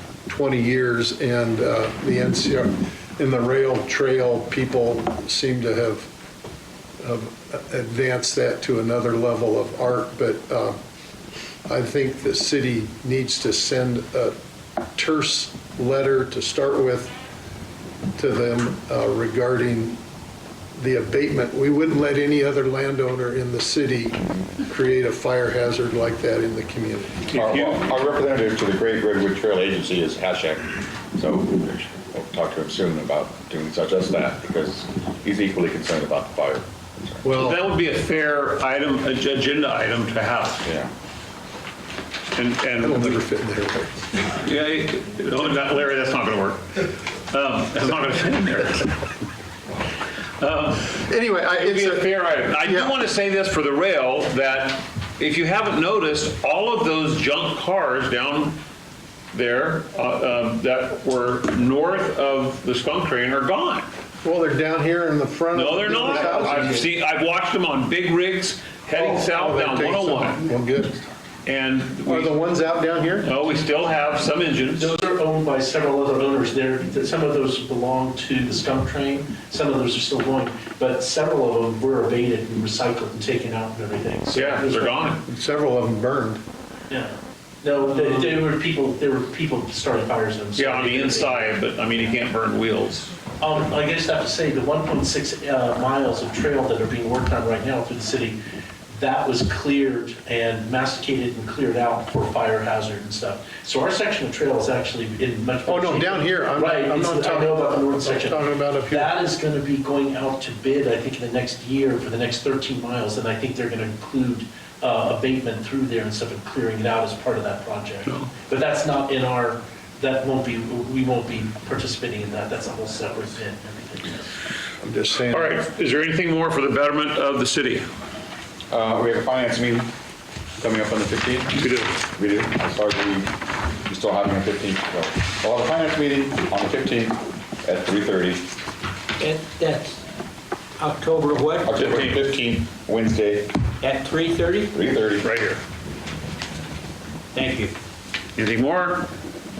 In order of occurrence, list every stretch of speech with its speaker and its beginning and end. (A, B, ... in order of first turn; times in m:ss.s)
0:00.3-0:06.1 A
0:07.0-0:10.8 A
0:11.6-0:14.3 A
0:14.9-0:17.1 A
0:18.2-0:20.0 A
0:20.8-0:27.3 A
0:27.3-0:37.2 B
0:27.4-0:27.8 C
0:37.2-0:37.6 A
0:37.3-0:40.6 C
0:40.6-0:40.9 B
0:42.3-0:43.2 C
0:42.8-0:44.2 A
0:44.3-0:48.9 C
0:50.4-0:51.0 C
0:51.0-0:52.1 A
0:51.6-0:58.6 C
0:52.6-0:52.9 A
0:59.3-1:03.9 C
1:04.2-1:06.9 A
1:05.5-1:10.4 C
1:08.9-1:11.0 A
1:11.4-1:12.4 C
1:12.0-1:13.3 A
1:13.2-1:14.9 C
1:14.7-1:25.0 D
1:24.3-1:25.2 C
1:25.3-1:26.4 A
1:26.9-1:31.6 D
1:30.6-1:33.1 C
1:33.4-1:38.4 D
1:38.9-2:04.3 D
1:45.6-1:49.3 A
2:04.8-2:05.6 A
2:05.3-2:07.9 C
2:08.7-2:09.9 B
2:10.6-2:11.6 B
2:11.6-2:12.0 C
2:12.1-2:13.3 B
2:13.8-2:18.5 B
2:19.2-2:20.0 E
2:20.8-2:21.7 E
2:21.6-2:23.6 B
2:21.8-2:22.1 C
2:23.8-2:24.7 E
2:24.7-2:25.2 B
2:25.2-2:25.6 C
2:27.3-2:27.7 E
2:28.4-2:29.1 C